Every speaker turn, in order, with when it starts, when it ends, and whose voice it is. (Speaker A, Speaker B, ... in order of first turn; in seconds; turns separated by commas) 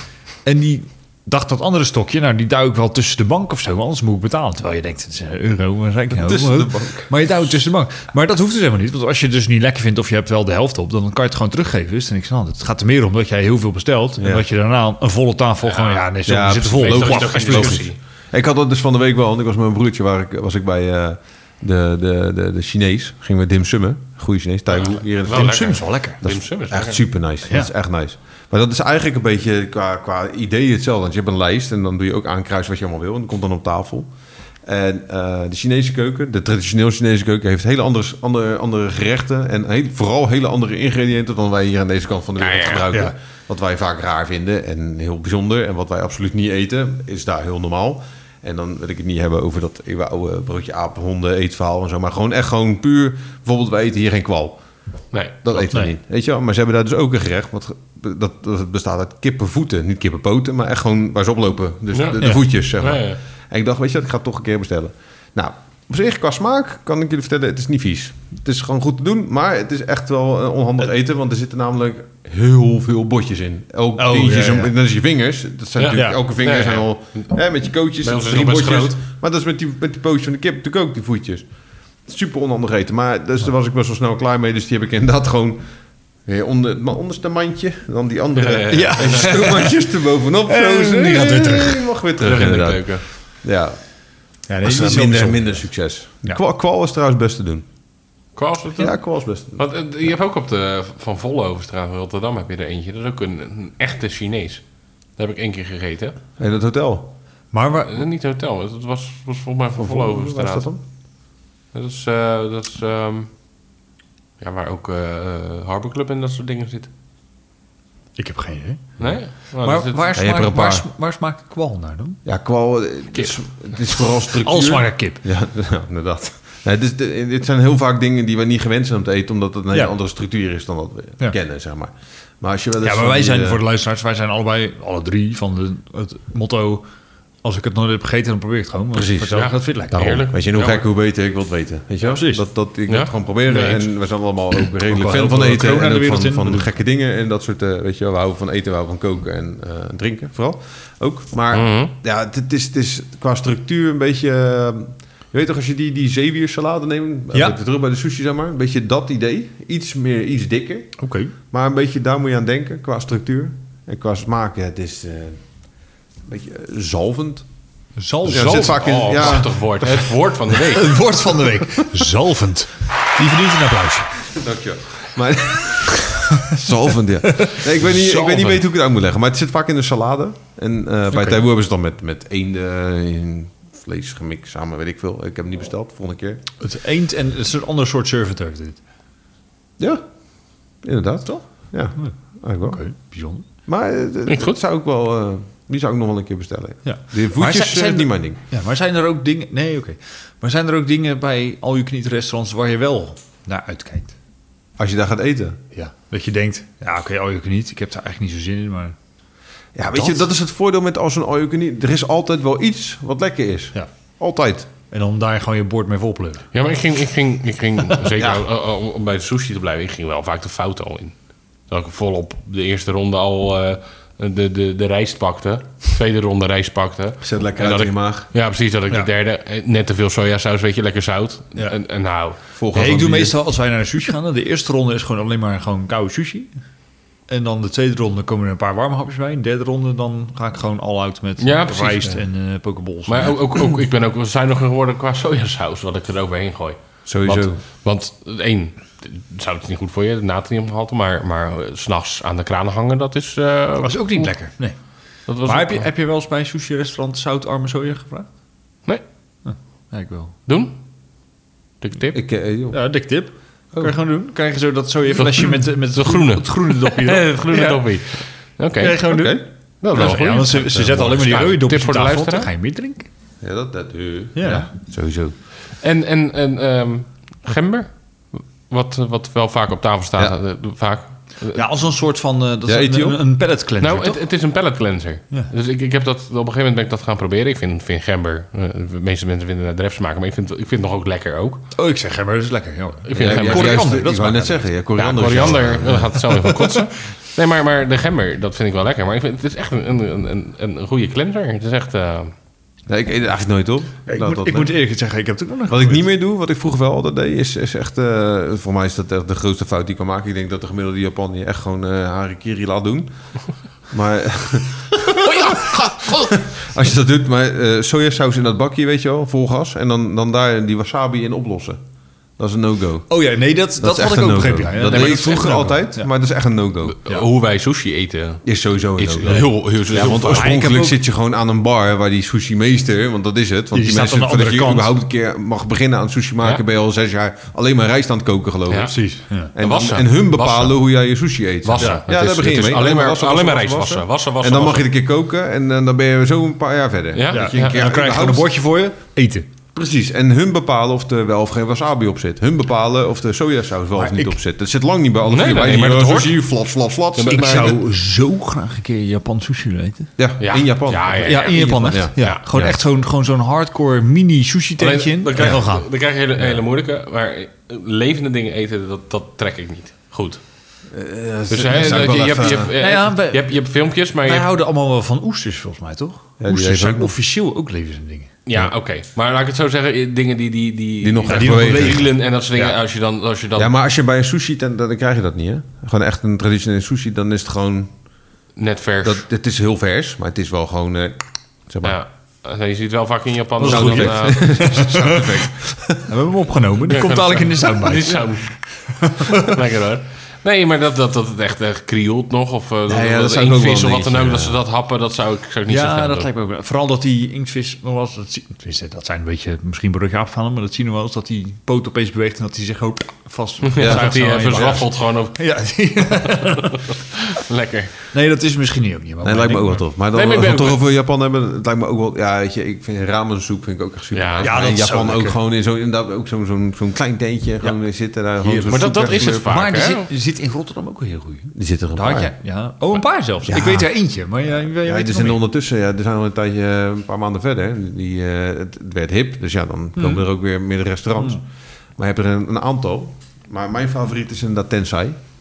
Speaker A: 0.4-17.8, Speaker B: 6.1-7.1, Speaker B: 14.2-14.4, Speaker C: 15.6-16.1, Speaker B: 16.2-34.1, Speaker C: 16.8-18.0, Speaker C: 24.7-27.0, Speaker A: 25.2-26.2, Speaker A: 27.4-27.7, Speaker B: 34.6-54.6, Speaker C: 42.4-42.9, Speaker C: 55.1-55.4, Speaker B: 55.4-81.5, Speaker A: 55.5-55.9, Speaker C: 61.9-63.2, Speaker A: 74.0-74.7, Speaker C: 75.8-77.3, Speaker A: 75.9-76.2, Speaker C: 78.0-79.0, Speaker B: 82.0-85.6, Speaker B: 86.2-93.8, Speaker C: 88.3-89.3, Speaker A: 88.7-89.7, Speaker A: 90.5-91.8, Speaker C: 92.2-93.0, Speaker A: 94.5-95.6, Speaker B: 94.6-97.7, Speaker C: 98.3-99.0, Speaker B: 98.8-99.6, Speaker C: 99.5-104.6, Speaker C: 105.2-106.2, Speaker B: 106.4-107.1, Speaker A: 107.5-108.0, Speaker C: 107.9-110.7, Speaker B: 109.8-110.8, Speaker C: 111.7-113.3, Speaker C: 114.4-116.9, Speaker A: 118.2-122.2, Speaker C: 119.0-120.1, Speaker B: 120.2-120.8, Speaker B: 122.2-133.6, Speaker A: 124.3-125.2, Speaker A: 132.8-136.8, Speaker A: 137.4-140.1, Speaker B: 138.9-161.0, Speaker C: 139.3-140.8, Speaker A: 142.0-142.4, Speaker C: 142.9-143.9, Speaker A: 144.8-146.7, Speaker C: 151.5-151.9, Speaker A: 161.0-161.3, Speaker B: 161.5-165.4, Speaker B: 166.3-167.4, Speaker A: 168.0-169.4, Speaker B: 168.2-170.1, Speaker C: 168.3-171.0, Speaker A: 170.7-174.2, Speaker B: 174.3-186.4, Speaker A: 177.2-177.7, Speaker C: 178.1-178.5, Speaker A: 181.1-181.4, Speaker A: 186.6-188.8, Speaker B: 190.8-192.8, Speaker A: 191.2-192.2, Speaker A: 192.7-193.4, Speaker B: 193.7-198.4, Speaker C: 194.3-194.6, Speaker A: 196.8-204.1, Speaker B: 204.8-205.6, Speaker A: 205.7-208.9, Speaker B: 209.7-214.7, Speaker A: 209.9-210.2, Speaker A: 214.9-216.4, Speaker C: 216.5-232.4, Speaker B: 218.1-218.4, Speaker B: 227.2-228.3, Speaker B: 232.6-233.3, Speaker A: 232.7-236.5, Speaker A: 237.3-243.4, Speaker C: 241.4-242.2, Speaker C: 243.1-254.3, Speaker B: 247.1-247.6, Speaker A: 253.8-258.3, Speaker C: 255.3-255.8, Speaker A: 259.4-260.3, Speaker C: 260.5-260.7, Speaker C: 261.8-262.2, Speaker B: 262.1-262.8, Speaker A: 262.7-268.0, Speaker C: 265.2-269.1, Speaker A: 268.8-273.1, Speaker B: 269.0-269.4, Speaker C: 269.8-272.5, Speaker B: 270.7-271.0, Speaker B: 273.4-275.3, Speaker A: 274.3-274.7, Speaker C: 275.8-281.6, Speaker A: 281.5-284.2, Speaker B: 282.6-283.2, Speaker C: 283.8-291.6, Speaker A: 291.7-294.7, Speaker C: 293.1-293.8, Speaker B: 293.1-296.2, Speaker C: 295.0-302.3, Speaker A: 296.4-296.7, Speaker B: 302.9-304.7, Speaker A: 304.1-306.0, Speaker B: 305.7-313.1, Speaker B: 313.9-321.8, Speaker C: 315.2-316.4, Speaker B: 322.4-323.1, Speaker A: 323.1-326.1, Speaker B: 323.8-327.0, Speaker C: 324.9-325.5, Speaker C: 326.9-328.4, Speaker B: 328.4-339.0, Speaker C: 329.0-330.6, Speaker A: 330.2-331.0, Speaker A: 333.7-334.9, Speaker C: 338.7-340.9, Speaker A: 338.9-339.5, Speaker B: 339.5-348.5, Speaker C: 341.6-344.9, Speaker A: 341.8-342.1, Speaker C: 347.1-347.8, Speaker A: 347.3-349.5, Speaker B: 349.7-357.8, Speaker A: 353.9-354.3, Speaker C: 355.3-356.4, Speaker C: 357.1-357.8, Speaker A: 357.2-360.1, Speaker B: 360.2-362.8, Speaker C: 360.4-362.4, Speaker A: 361.2-365.9, Speaker C: 364.8-370.4, Speaker B: 370.9-372.7, Speaker C: 371.5-374.5, Speaker A: 372.8-373.6, Speaker A: 374.2-378.3, Speaker B: 376.4-377.1, Speaker C: 378.4-383.7, Speaker B: 381.0-382.8, Speaker A: 381.3-382.0, Speaker B: 383.5-387.9, Speaker C: 388.6-389.2, Speaker B: 389.0-392.0, Speaker C: 391.8-395.2, Speaker A: 393.6-395.2, Speaker B: 393.6-396.1, Speaker A: 396.1-399.6, Speaker C: 396.9-406.3, Speaker B: 402.9-404.6, Speaker A: 405.7-416.9, Speaker C: 413.6-418.1, Speaker B: 413.8-414.8, Speaker A: 418.1-419.8, Speaker B: 419.2-429.5, Speaker C: 420.1-420.8, Speaker C: 424.1-424.5, Speaker A: 424.4-425.4, Speaker A: 428.4-435.4, Speaker C: 428.6-430.1, Speaker B: 431.5-432.3, Speaker B: 433.4-433.9, Speaker B: 434.8-441.4, Speaker A: 439.9-440.2, Speaker B: 441.9-445.2